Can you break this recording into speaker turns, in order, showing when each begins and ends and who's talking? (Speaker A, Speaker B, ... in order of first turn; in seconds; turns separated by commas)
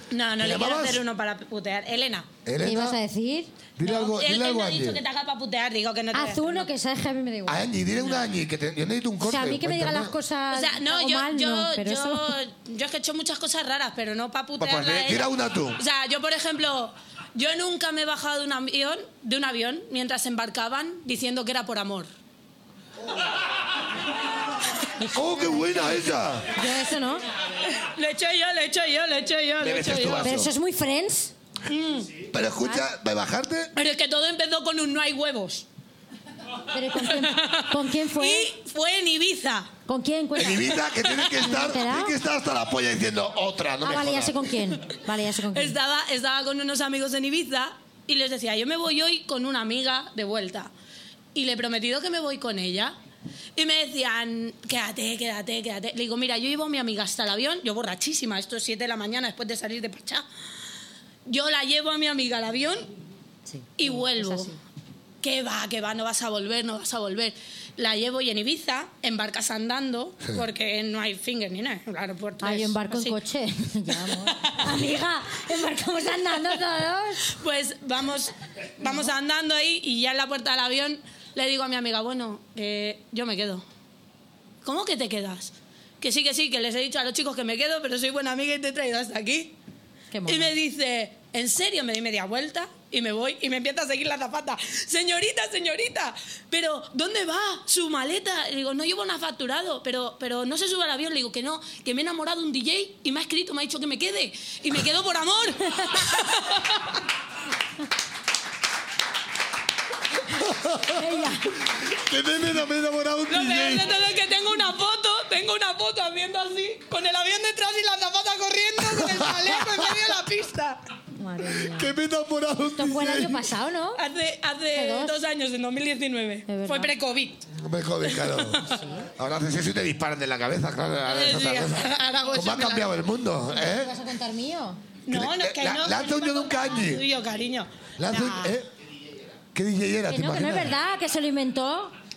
Speaker A: 0.1-2.3, Speaker B: 0.4-1.0, Speaker B: 2.4-3.0, Speaker C: 2.6-3.5, Speaker B: 3.8-5.0, Speaker A: 3.8-6.7, Speaker C: 6.1-7.6, Speaker B: 7.5-10.1, Speaker C: 9.2-12.3, Speaker A: 10.5-22.1, Speaker B: 14.6-15.8, Speaker C: 25.0-26.0, Speaker B: 25.1-26.5, Speaker C: 26.5-27.2, Speaker A: 27.6-30.3, Speaker B: 29.6-30.5, Speaker C: 30.1-31.3, Speaker A: 31.7-32.1, Speaker B: 32.3-33.7, Speaker A: 33.8-35.6, Speaker C: 36.7-38.5, Speaker A: 37.0-39.7, Speaker C: 39.9-42.1, Speaker B: 40.3-44.4, Speaker C: 43.8-45.7, Speaker A: 45.5-50.7, Speaker A: 51.3-52.9, Speaker A: 53.5-60.2, Speaker A: 61.3-62.9, Speaker C: 63.5-64.6, Speaker A: 63.8-64.5, Speaker A: 65.2-73.2, Speaker C: 72.4-77.3, Speaker A: 73.9-74.8, Speaker A: 77.2-83.6, Speaker A: 84.6-89.5, Speaker C: 90.1-90.5, Speaker A: 90.2-106.8, Speaker B: 110.5-110.9, Speaker C: 110.8-111.5, Speaker B: 111.7-113.9, Speaker A: 113.3-120.8, Speaker C: 121.2-121.9, Speaker B: 121.5-123.5, Speaker C: 122.7-124.0, Speaker A: 123.9-127.4, Speaker C: 124.7-125.2, Speaker C: 126.5-126.9, Speaker B: 127.5-128.6, Speaker A: 128.0-128.7, Speaker C: 128.6-129.1, Speaker B: 129.2-133.9, Speaker A: 131.1-132.9, Speaker C: 133.5-134.8, Speaker A: 135.1-138.6, Speaker B: 135.1-137.0, Speaker B: 138.0-138.7, Speaker B: 139.5-140.7, Speaker C: 140.1-141.9